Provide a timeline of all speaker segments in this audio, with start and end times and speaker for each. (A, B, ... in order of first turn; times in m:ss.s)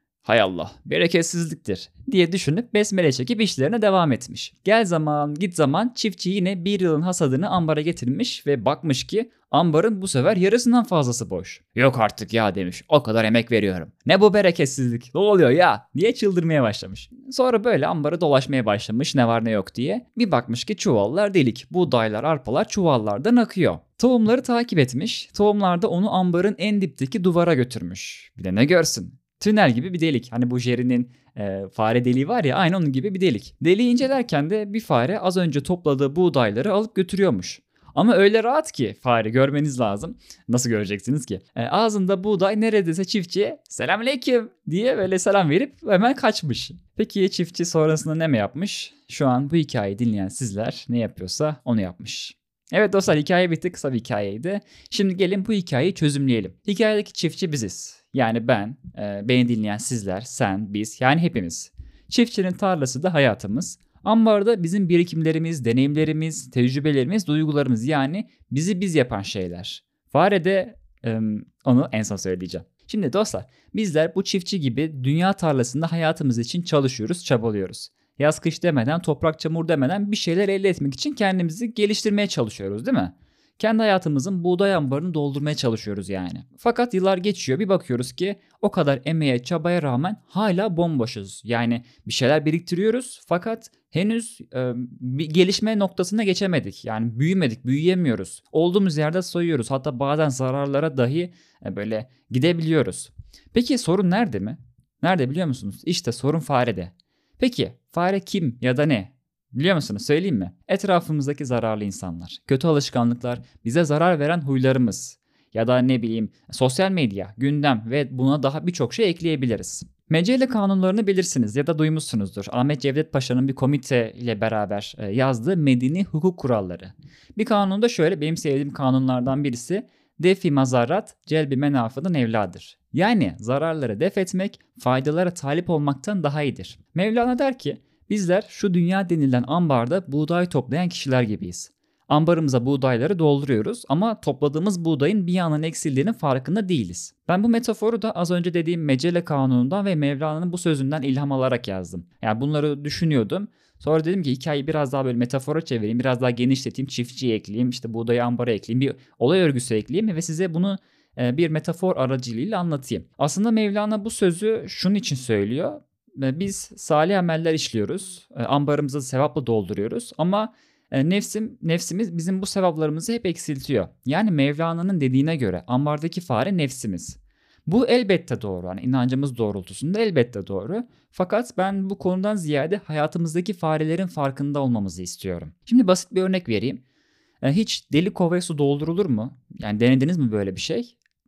0:00.2-3:06.8 A
3:07.4-3:11.0 A